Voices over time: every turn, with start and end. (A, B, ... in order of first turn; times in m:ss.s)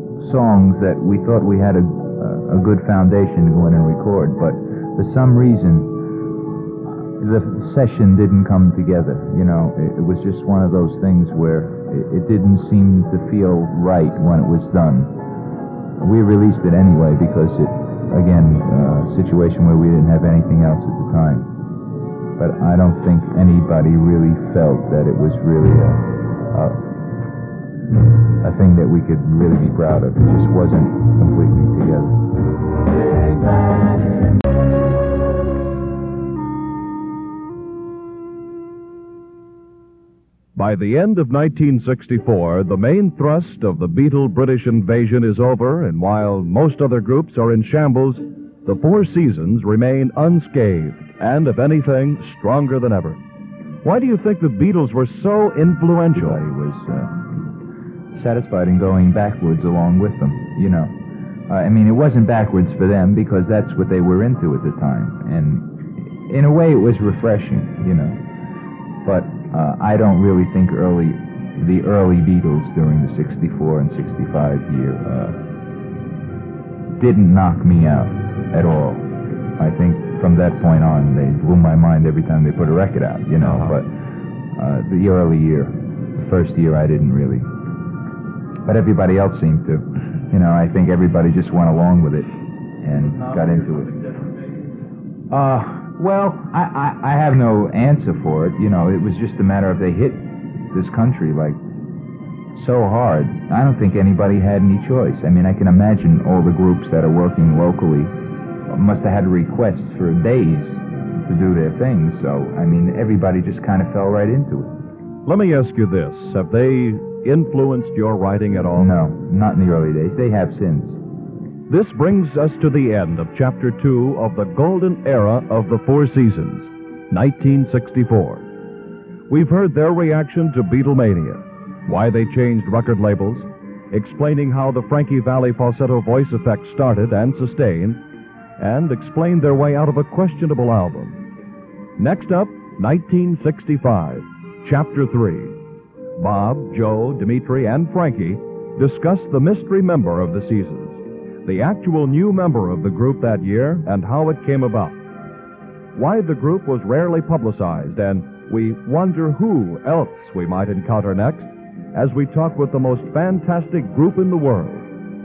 0:00.2-0:05.9 A
0:07.2-0:15.1 A
0:16.0-0:21.5 A
0:22.4-0:26.8 A
0:28.4-0:32.2 A
0:40.6-0:53.2 B
0:53.8-0:56.4 B
0:56.1-0:57.2 A
0:58.1-1:00.9 A
1:01.5-1:08.2 A
1:09.0-1:15.4 A
1:17.0-1:19.0 A
1:19.6-1:23.9 A
1:23.4-1:23.8 B
1:24.6-1:27.5 A
1:28.6-1:34.1 A
1:35.3-1:41.6 A
1:42.5-1:48.1 A
1:48.7-1:54.7 A
1:55.2-1:58.9 B
1:58.7-2:01.0 A
2:01.7-2:08.5 B
2:09.3-2:18.0 B
2:18.6-2:21.2 B
2:22.0-2:25.6 B
2:26.2-2:35.0 B
2:35.9-2:44.9 B